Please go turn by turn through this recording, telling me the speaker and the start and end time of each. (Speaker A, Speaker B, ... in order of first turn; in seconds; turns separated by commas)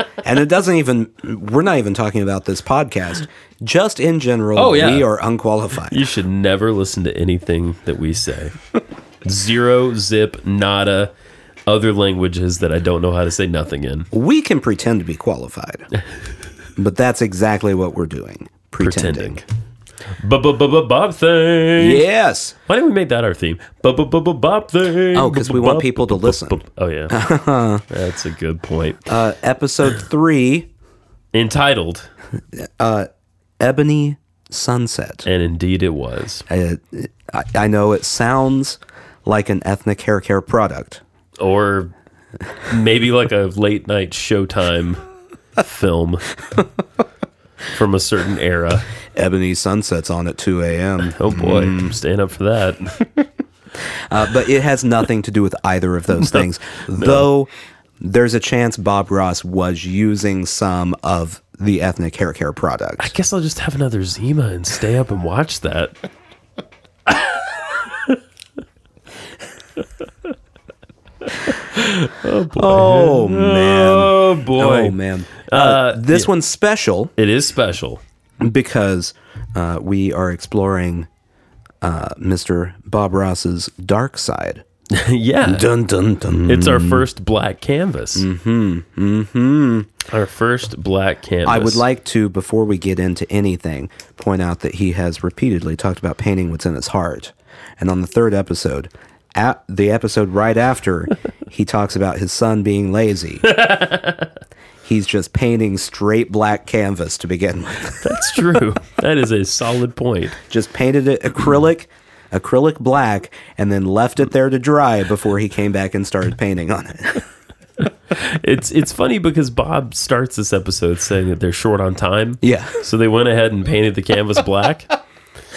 Speaker A: 0.2-6.0, Speaker B: 4.5-5.1, Speaker B: 5.8-8.6, Speaker B: 9.2-11.1, Speaker B: 11.7-14.1, Speaker A: 14.1-15.9, Speaker A: 16.8-19.4, Speaker B: 18.8-19.4, Speaker B: 20.2-22.0, Speaker A: 21.8-22.6, Speaker B: 22.7-27.2, Speaker A: 25.1-27.8, Speaker B: 27.9-29.1, Speaker A: 29.1-30.7, Speaker B: 31.3-32.1, Speaker A: 32.5-33.1, Speaker A: 33.6-35.2, Speaker B: 35.2-36.5, Speaker A: 36.5-41.0, Speaker B: 41.4-41.9, Speaker B: 42.7-45.0, Speaker B: 45.6-46.2, Speaker B: 47.7-48.9, Speaker A: 49.1-52.0, Speaker B: 51.0-53.0, Speaker A: 54.1-63.1, Speaker B: 56.1-57.3, Speaker B: 63.0-65.9, Speaker B: 67.1-68.2, Speaker B: 71.3-76.3, Speaker A: 72.5-77.1, Speaker B: 77.2-78.0, Speaker A: 78.4-81.1, Speaker A: 81.8-84.6, Speaker B: 84.9-85.7, Speaker A: 85.4-87.0, Speaker B: 86.5-88.3, Speaker A: 88.2-89.9, Speaker B: 90.1-91.8, Speaker A: 91.5-103.5, Speaker B: 103.4-104.3, Speaker A: 104.8-108.4, Speaker B: 108.0-110.4, Speaker A: 110.5-117.3, Speaker B: 118.1-125.0, Speaker A: 122.4-122.8